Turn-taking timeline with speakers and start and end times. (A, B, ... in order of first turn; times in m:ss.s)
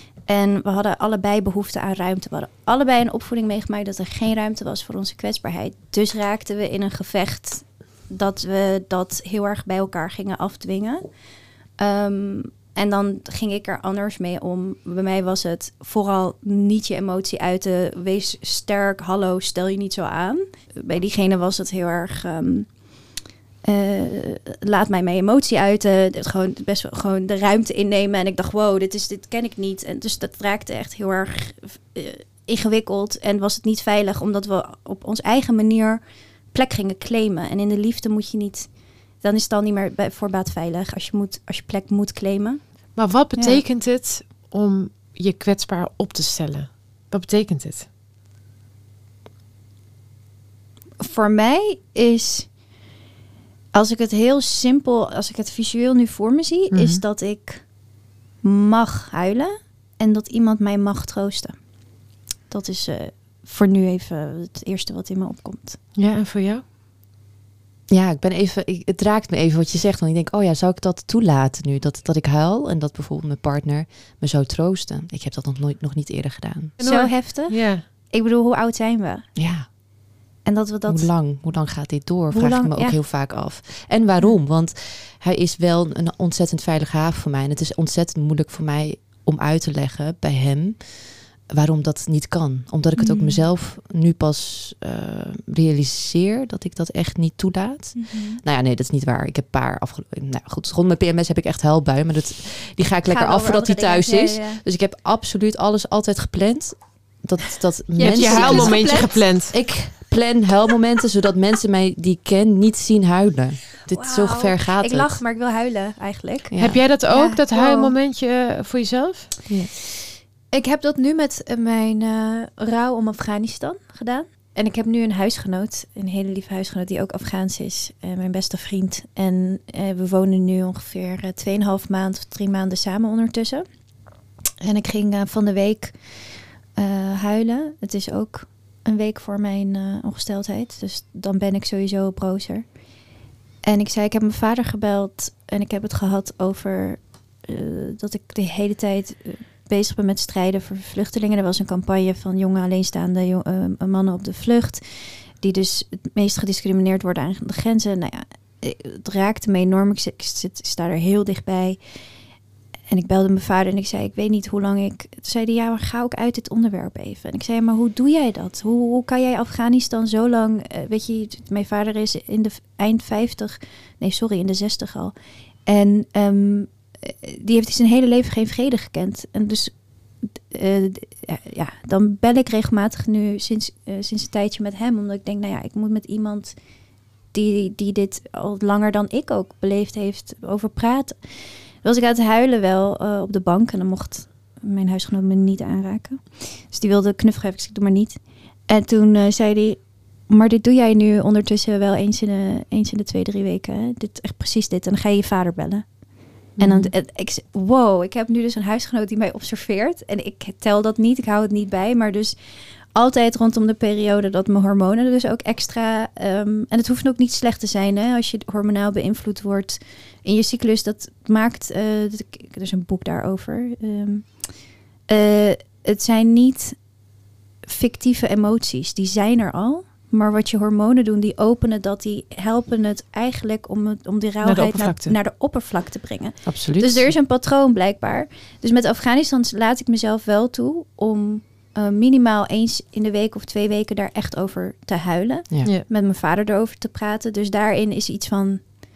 0:00.3-0:11.0 A
0:11.8-0:22.7 A
0:23.6-0:43.6 A
0:43.0-0:47.9 B
0:51.0-0:52.5 A
0:53.7-0:57.6 A
0:56.7-0:57.0 B
0:58.4-1:01.6 A
1:02.5-1:05.8 A
1:06.0-1:06.6 B
1:07.9-1:16.8 C
1:16.8-1:17.8 B
1:16.8-1:19.3 A
1:19.4-1:19.7 C
1:20.4-1:21.1 A
1:20.9-1:31.0 C
1:22.3-1:23.0 A
1:31.5-1:55.2 C
1:33.0-1:33.4 A
1:38.0-1:38.4 A
1:43.0-1:44.6 A
1:48.0-1:49.2 A
1:48.0-1:49.6 B
1:53.9-1:57.9 A
1:56.5-1:56.8 C
1:56.6-1:59.7 B
2:00.5-2:13.7 A
2:14.6-2:16.2 A
2:16.8-2:22.7 A
2:23.6-2:41.8 A
2:42.9-2:55.1 A
2:55.7-3:06.6 A
3:07.3-3:11.2 A
3:11.8-3:25.9 A
3:26.6-3:32.4 A
3:26.6-3:26.9 B
3:32.9-3:44.5 A
3:45.1-3:46.8 A
3:47.6-4:08.7 A
3:54.4-3:55.2 B
3:56.4-3:57.1 C